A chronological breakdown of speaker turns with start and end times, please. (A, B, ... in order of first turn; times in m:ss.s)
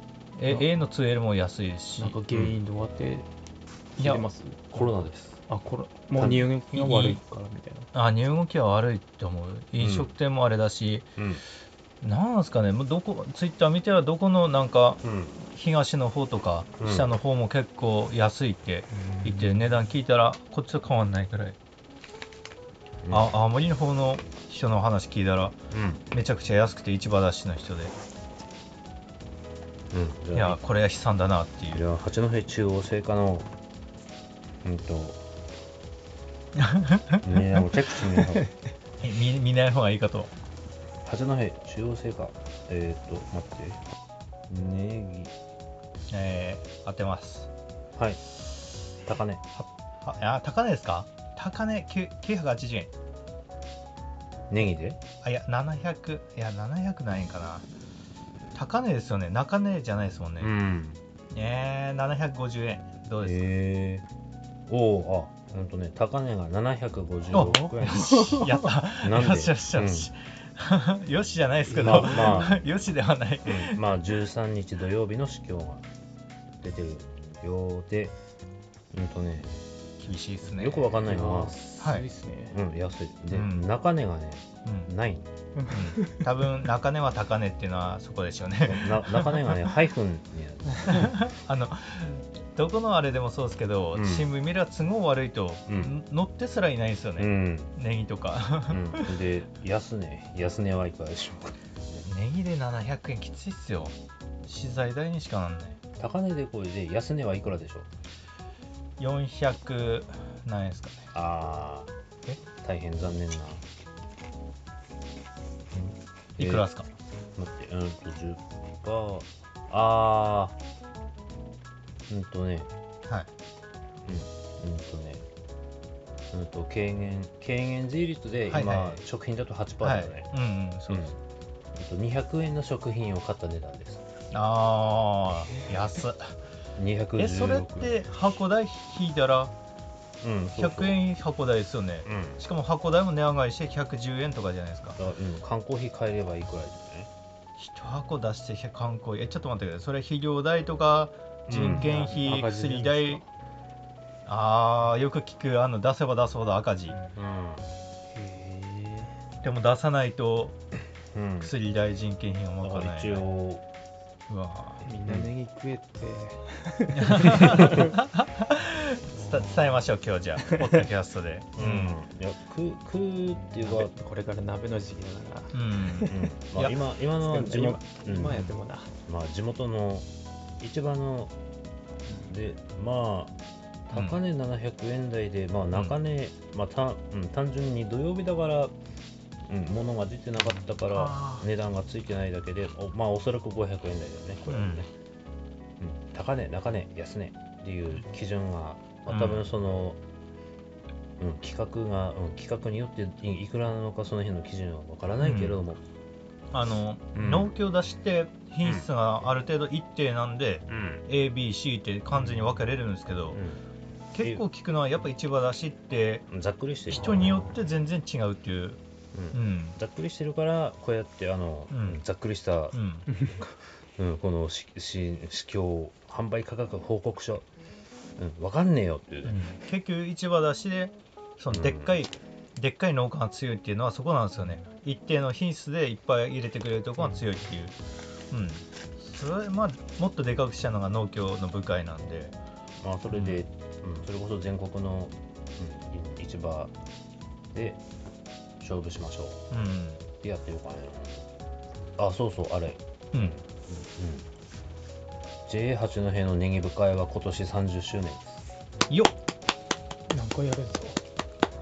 0:00.4-0:02.2 A
0:02.0-0:03.3 B
0:04.0-0:05.0 B
0:04.0-0:04.3 A
0:04.7-0:05.4 C
0:05.5-0:07.9 B
0:06.2-0:06.5 C
0:06.7-0:07.2 A
0:07.9-0:11.1 A
0:09.8-0:10.1 C
0:12.0-0:21.6 A
0:15.0-0:15.4 C
0:16.8-0:17.2 C
0:18.9-0:19.8 B
0:23.0-0:23.3 C
0:23.1-0:25.6 A
0:25.7-0:26.0 C
0:26.1-0:27.9 A
0:29.9-0:30.6 C
0:30.3-0:31.8 A
0:31.7-0:33.5 C
0:34.6-0:35.2 C
0:36.6-0:37.3 A
0:37.2-0:38.5 C
0:39.0-0:40.3 A
0:41.0-0:43.8 C
0:44.5-0:45.3 C
0:46.1-0:47.5 A
0:49.0-0:49.4 C
0:49.6-0:52.9 A
0:54.5-0:55.0 C
0:55.2-0:57.7 A
0:58.6-1:00.5 A
1:00.4-1:01.0 C
1:01.3-1:03.4 A
1:03.2-1:04.1 C
1:04.7-1:10.1 C
1:07.3-1:13.8 A
1:11.7-1:12.5 B
1:11.8-1:12.6 C
1:13.4-1:15.9 C
1:16.6-1:18.2 C
1:18.9-1:19.6 C
1:20.0-1:22.0 A
1:20.5-1:21.6 C
1:21.1-1:22.6 B
1:22.5-1:25.3 C
1:23.3-1:23.7 A
1:24.7-1:24.9 A
1:25.6-1:26.2 B
1:25.7-1:29.5 A
1:28.6-1:31.1 C
1:30.9-1:39.2 A
1:34.0-1:34.3 C
1:35.7-1:35.9 C
1:37.2-1:37.7 C
1:38.7-1:42.0 C
1:42.0-1:45.8 A
1:46.0-1:47.9 C
1:49.0-1:51.1 A
1:51.1-1:51.9 C
1:52.6-1:53.6 C
1:55.7-1:56.7 C
1:56.4-1:56.9 A
1:57.4-2:00.6 C
2:02.1-2:02.7 C
2:04.0-2:05.3 C
2:06.3-2:10.3 C
2:08.5-2:09.0 A
2:09.8-2:11.2 A
2:10.9-2:11.1 C
2:11.7-2:14.0 C
2:14.3-2:16.4 A
2:16.8-2:18.0 C
2:17.2-2:19.5 A
2:20.2-2:21.0 C
2:20.6-2:25.0 A
2:22.0-2:22.4 C
2:25.0-2:27.1 C
2:27.6-2:33.2 A
2:31.5-2:31.9 C
2:31.7-2:33.3 B
2:34.3-2:37.0 A
2:36.9-2:37.2 B
2:37.2-2:37.7 C
2:38.1-2:39.2 B
2:39.4-2:40.6 A
2:41.1-2:41.5 C
2:41.4-2:43.3 A
2:42.6-2:43.6 C
2:44.3-2:44.8 A
2:44.8-2:47.9 B
2:47.0-2:52.0 A
2:49.1-2:49.9 B
2:50.4-2:50.8 B
2:51.6-2:53.9 C
2:53.3-2:56.2 B
2:55.5-2:56.8 A
2:56.1-2:58.5 C
2:57.2-2:58.9 B
2:59.1-3:00.1 C
3:00.6-3:01.3 C
3:02.2-3:03.4 C
3:03.9-3:08.7 C
3:03.9-3:04.2 A
3:09.5-3:14.9 C
3:10.9-3:11.5 A
3:14.5-3:14.9 A
3:15.8-3:20.0 C
3:19.1-3:19.5 A
3:21.2-3:25.8 C
3:25.2-3:25.6 A
3:26.5-3:33.4 A
3:27.2-3:27.5 C
3:30.7-3:31.0 C
3:33.3-3:33.6 C
3:34.1-3:36.3 A
3:36.3-3:37.4 C
3:36.9-3:38.8 A
3:39.1-3:47.5 C
3:39.3-3:39.8 A
3:41.7-3:42.0 A
3:42.7-3:43.1 A
3:48.2-3:49.4 C
3:49.2-3:57.8 A
3:51.5-3:52.0 C
3:58.3-4:02.4 A
4:02.8-4:06.7 C
4:03.1-4:03.4 A
4:07.5-4:07.8 C
4:08.6-4:09.5 C
4:09.5-4:10.0 A
4:10.2-4:11.3 C
4:12.0-4:14.3 C
4:15.5-4:18.4 C
4:18.9-4:19.1 A
4:20.1-4:21.0 B